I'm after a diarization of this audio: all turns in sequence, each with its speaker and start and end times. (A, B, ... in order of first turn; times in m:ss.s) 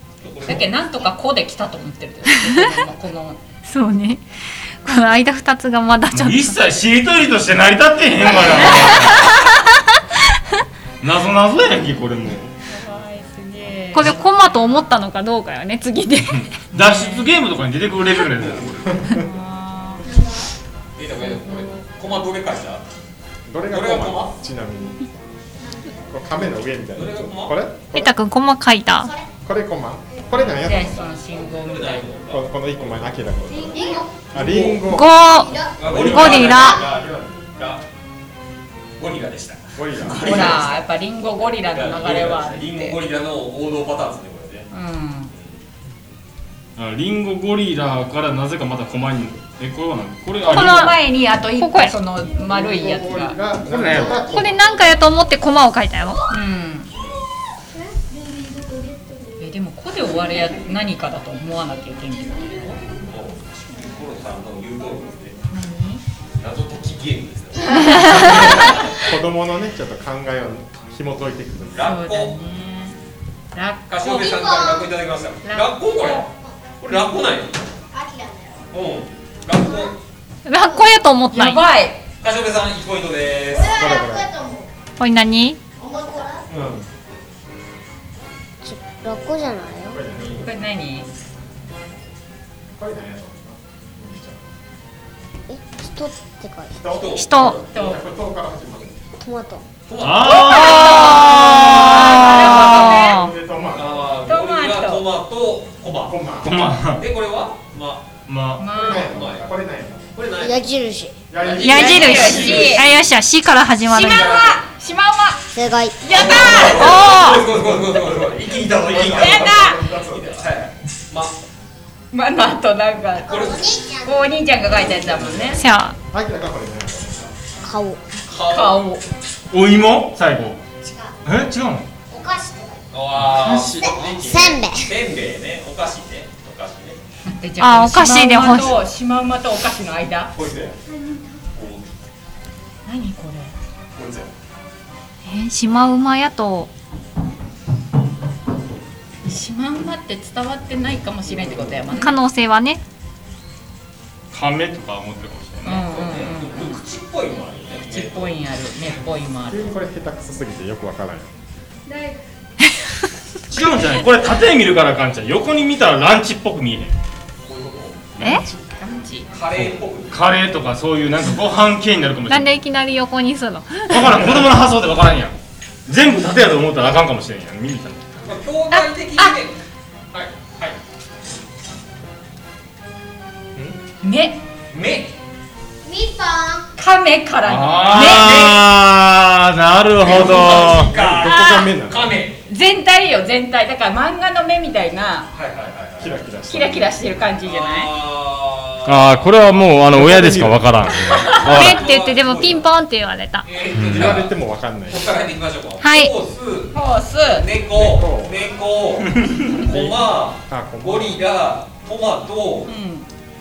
0:00.2-0:00.9 A
0:00.4-0:03.4 B
0:02.4-0:02.6 C
0:03.6-0:04.2 C
0:04.8-0:06.6 C
0:06.1-0:09.4 D
0:08.3-0:09.7 C
0:11.0-0:12.5 D
0:12.6-0:15.0 B
0:13.9-0:16.5 C
0:16.3-0:19.1 D
0:16.7-0:17.3 B
0:18.4-0:18.9 A
0:19.0-0:19.2 E
0:19.2-0:20.1 B
0:20.1-0:20.4 F
0:21.0-0:22.8 A
0:21.5-0:21.8 B
0:23.5-0:25.1 E
0:23.7-0:24.3 A
0:25.7-0:26.0 F
0:26.1-0:28.1 E
0:26.9-0:27.6 A
0:27.9-0:29.1 C
0:28.9-0:29.3 F
0:29.4-0:31.1 E
0:30.3-0:33.1 A
0:30.6-0:32.2 B
0:32.3-0:35.2 E
0:33.7-0:34.2 F
0:34.3-0:34.9 A
0:34.8-0:36.8 C
0:35.3-0:36.7 F
0:35.6-0:37.8 A
0:35.8-0:37.4 E
0:39.0-0:44.7 A
0:39.8-0:40.6 E
0:40.1-0:43.0 B
0:44.7-0:45.3 B
0:46.8-0:51.0 D
0:50.4-0:53.4 B
0:50.5-0:51.0 C
0:51.6-0:51.9 C
0:52.4-0:54.9 E
0:53.6-0:54.2 D
0:54.2-0:56.2 C
0:56.3-0:56.9 B
0:59.4-1:02.8 B
1:02.9-1:05.4 A
1:05.5-1:06.0 B
1:06.4-1:09.1 A
1:07.9-1:08.2 C
1:08.2-1:11.9 E
1:11.7-1:12.4 A
1:11.8-1:13.0 B
1:13.5-1:13.9 B
1:13.9-1:17.6 A
1:14.0-1:14.9 F
1:15.5-1:16.2 B
1:16.2-1:16.5 F
1:17.9-1:18.7 F
1:18.7-1:20.0 A
1:20.4-1:21.7 C
1:20.6-1:20.9 F
1:21.3-1:22.0 B
1:22.2-1:23.8 A
1:23.6-1:24.7 F
1:23.8-1:24.3 E
1:25.0-1:25.6 C
1:25.8-1:26.5 F
1:26.5-1:26.9 E
1:28.6-1:30.0 F
1:29.9-1:30.7 E
1:30.4-1:31.1 B
1:32.7-1:34.4 E
1:35.5-1:36.8 F
1:36.8-1:39.0 E
1:36.9-1:37.8 A
1:37.1-1:37.6 C
1:37.7-1:38.0 B
1:39.2-1:39.6 F
1:39.9-1:42.6 A
1:40.0-1:42.6 D
1:40.7-1:43.3 C
1:41.8-1:43.3 B
1:42.2-1:44.2 E
1:43.7-1:46.2 A
1:44.3-1:45.1 B
1:46.0-1:46.6 E
1:46.4-1:47.0 D
1:46.9-1:48.1 A
1:48.2-1:48.7 D
1:48.6-1:49.3 B
1:48.7-1:50.2 E
1:48.9-1:49.5 A
1:50.1-1:50.6 A
1:50.3-1:51.2 F
1:51.3-1:52.8 E
1:51.4-1:53.0 A
1:51.6-1:54.4 C
1:51.6-1:52.9 B
1:53.9-1:55.4 B
1:53.9-1:54.6 A
1:55.5-1:56.3 F
1:56.0-1:57.1 B
1:56.0-2:01.4 A
1:56.6-1:57.5 C
1:57.5-2:00.5 E
1:59.0-1:59.8 B
2:02.1-2:03.4 B
2:03.2-2:04.4 F
2:03.3-2:03.6 A
2:04.1-2:05.6 B
2:04.8-2:05.6 A
2:05.6-2:06.0 C
2:06.1-2:07.4 E
2:07.6-2:08.1 F
2:08.2-2:08.9 A
2:08.5-2:09.0 B
2:09.5-2:10.6 D
2:10.8-2:11.1 F
2:11.2-2:11.9 D
2:12.1-2:12.8 F
2:12.9-2:17.0 A
2:13.6-2:14.9 F
2:17.2-2:20.3 B
2:17.6-2:18.8 C
2:20.3-2:20.8 A
2:21.5-2:21.8 A
2:22.8-2:23.5 B
2:24.0-2:24.3 A
2:25.2-2:26.7 C
2:29.2-2:32.2 B
2:31.2-2:31.8 A
2:32.0-2:32.8 C
2:34.3-2:35.8 D
2:35.6-2:38.4 A
2:35.6-2:36.8 B
2:37.9-2:39.7 B
2:39.4-2:41.3 E
2:43.5-2:46.9 D
2:47.4-2:48.2 A
2:48.2-2:48.4 C
2:48.2-2:48.6 E
2:48.8-2:49.3 B
2:49.3-2:50.4 A
2:49.6-2:52.5 D
2:52.3-2:54.1 C
2:53.9-2:58.2 D
2:58.2-2:59.6 A
3:00.1-3:00.8 A
3:04.0-3:04.4 B
3:04.7-3:05.2 A
3:05.8-3:06.7 F
3:06.8-3:08.4 B
3:07.4-3:10.9 D
3:07.9-3:08.6 A
3:10.0-3:12.4 A
3:10.1-3:12.2 E
3:11.3-3:11.7 B
3:12.5-3:15.3 B
3:15.3-3:16.2 A
3:16.0-3:17.0 E
3:16.5-3:17.9 B
3:17.4-3:19.2 A
3:18.8-3:21.8 D
3:19.9-3:21.1 E
3:21.1-3:21.4 B
3:21.2-3:22.7 A
3:21.4-3:23.5 C
3:23.4-3:32.7 A
3:23.7-3:25.1 E
3:25.8-3:26.1 C
3:26.7-3:27.5 B
3:27.7-3:28.4 E
3:29.1-3:29.4 D
3:29.6-3:31.2 E
3:32.7-3:33.1 B